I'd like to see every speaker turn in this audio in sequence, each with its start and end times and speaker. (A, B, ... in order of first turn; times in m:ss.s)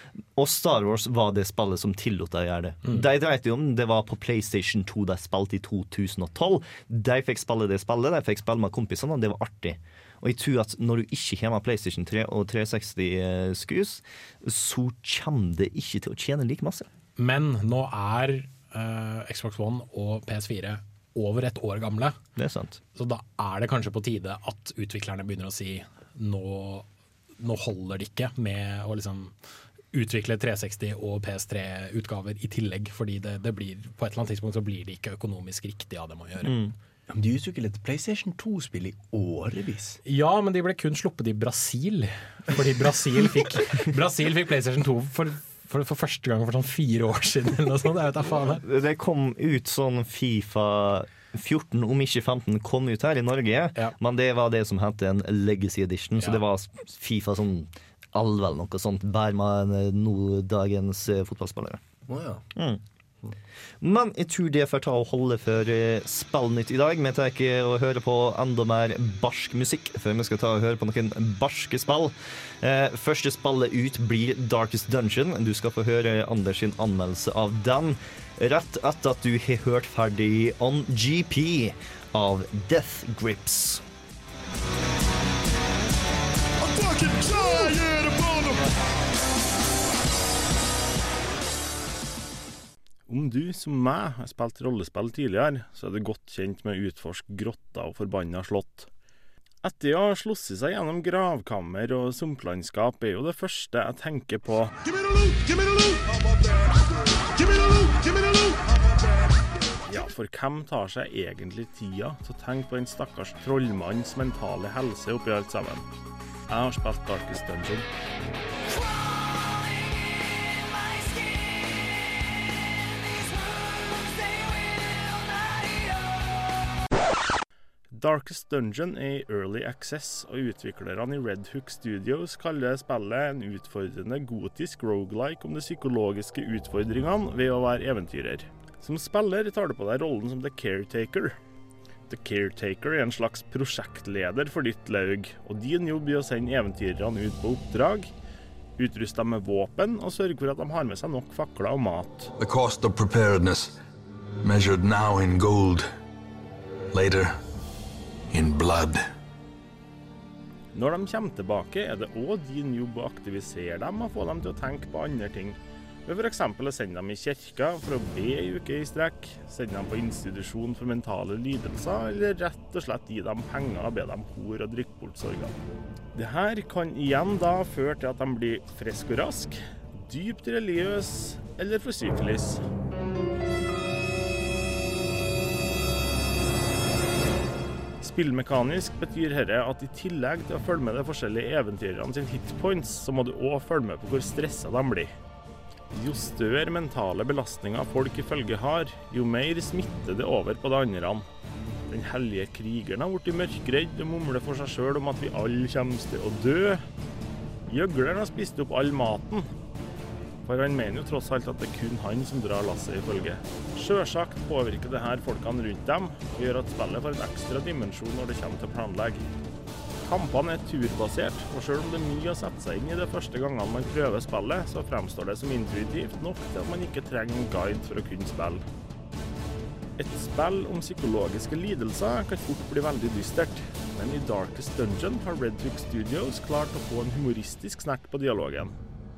0:00.3-0:16.9 A
0:17.2-0:22.2 B
0:22.4-0:22.8 A
0:23.0-0:26.8 B
0:27.4-0:29.3 B
0:29.9-0:36.6 B
0:36.4-0:36.7 A
0:37.1-0:40.0 C
0:40.0-0:48.6 B
0:48.6-1:01.8 A
1:02.1-1:02.4 C
1:02.5-1:02.8 A
1:03.8-1:23.8 A
1:33.1-1:38.9 D
1:39.6-1:44.8 D
1:45.3-1:46.0 D
1:47.6-1:48.5 D
1:49.8-1:55.9 D
1:56.5-1:57.9 D
2:05.2-2:05.6 D
2:07.9-2:21.4 D
2:22.1-2:28.1 D
2:28.8-2:32.3 D
2:32.4-2:33.7 E
2:34.4-2:35.9 E
2:36.9-2:37.3 E
2:38.3-2:39.0 E
2:40.7-2:55.6 D
2:56.1-3:02.6 D
3:08.0-3:15.1 D
3:15.9-3:21.3 D
3:21.9-3:26.8 D
3:27.7-3:29.5 D
3:30.4-3:39.2 D
3:40.0-3:48.6 D
3:50.0-3:58.7 D